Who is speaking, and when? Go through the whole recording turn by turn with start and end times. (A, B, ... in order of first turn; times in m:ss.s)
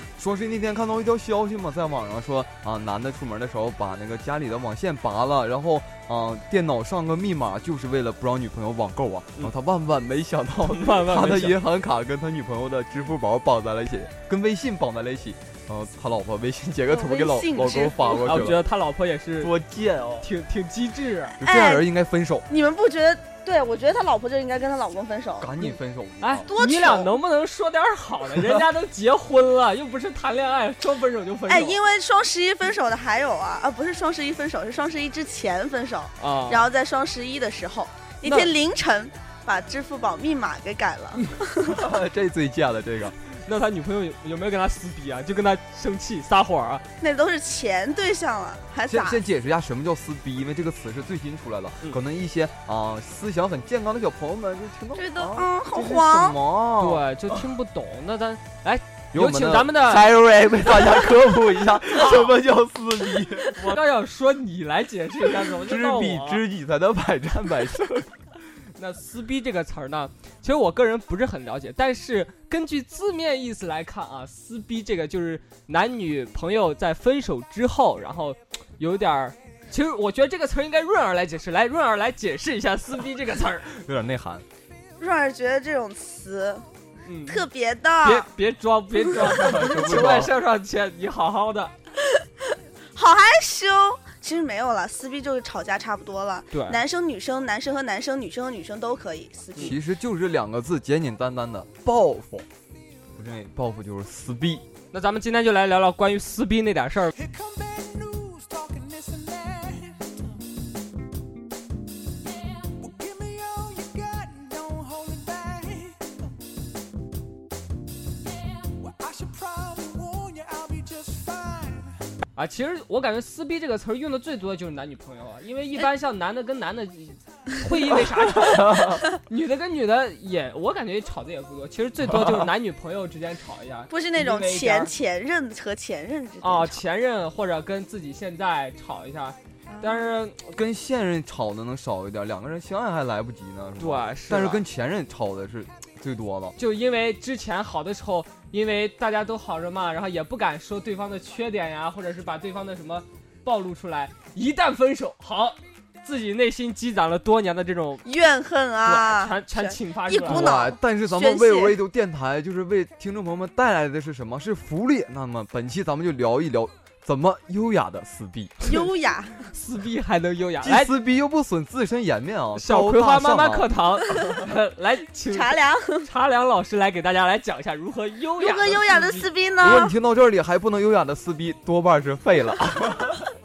0:00.2-0:18.6 A
0:10.6-0:11.6 B
0:16.9-0:18.4 C
0:18.2-0:19.5 B
0:19.4-0:20.3 A
0:20.2-0:21.4 B
0:21.4-0:22.5 A
0:21.4-0:21.8 C
0:22.5-0:25.5 C
0:25.4-0:26.5 A
0:26.2-0:31.8 B
0:26.5-0:27.1 C
0:31.5-0:41.8 C
0:36.2-0:36.7 B
0:38.2-0:38.5 B
0:41.6-0:43.2 A
0:43.4-0:46.8 B
0:47.0-0:49.2 C
0:48.9-0:57.4 A
0:55.0-0:56.4 C
0:56.8-1:00.1 B
0:59.1-1:03.8 A
1:02.0-1:02.3 B
1:03.5-1:06.4 B
1:05.6-1:08.1 A
1:08.7-1:23.7 B
1:23.7-1:24.4 A
1:25.0-1:26.7 C
1:27.0-1:27.4 B
1:27.3-1:28.3 C
1:28.0-1:31.7 B
1:29.2-1:30.3 A
1:33.0-1:39.8 C
1:36.5-1:36.8 B
1:39.6-1:42.4 A
1:43.1-1:44.6 A
1:44.9-1:47.1 B
1:47.2-1:50.1 D
1:52.6-1:56.1 D
1:58.8-2:02.0 D
2:02.3-2:14.9 B
2:08.5-2:08.8 A
2:13.9-2:16.8 C
2:16.4-2:20.4 B
2:19.7-2:20.1 C
2:20.5-2:26.6 A
2:23.8-2:24.6 B
2:26.6-2:38.1 B
2:38.0-2:41.8 C
2:38.8-2:40.5 B
2:40.2-2:48.6 A
2:48.6-2:49.5 C
2:49.5-2:50.9 B
2:50.6-2:53.7 A
2:52.6-2:59.3 B
2:55.3-2:56.1 C
2:58.4-2:59.9 C
2:59.6-3:03.3 A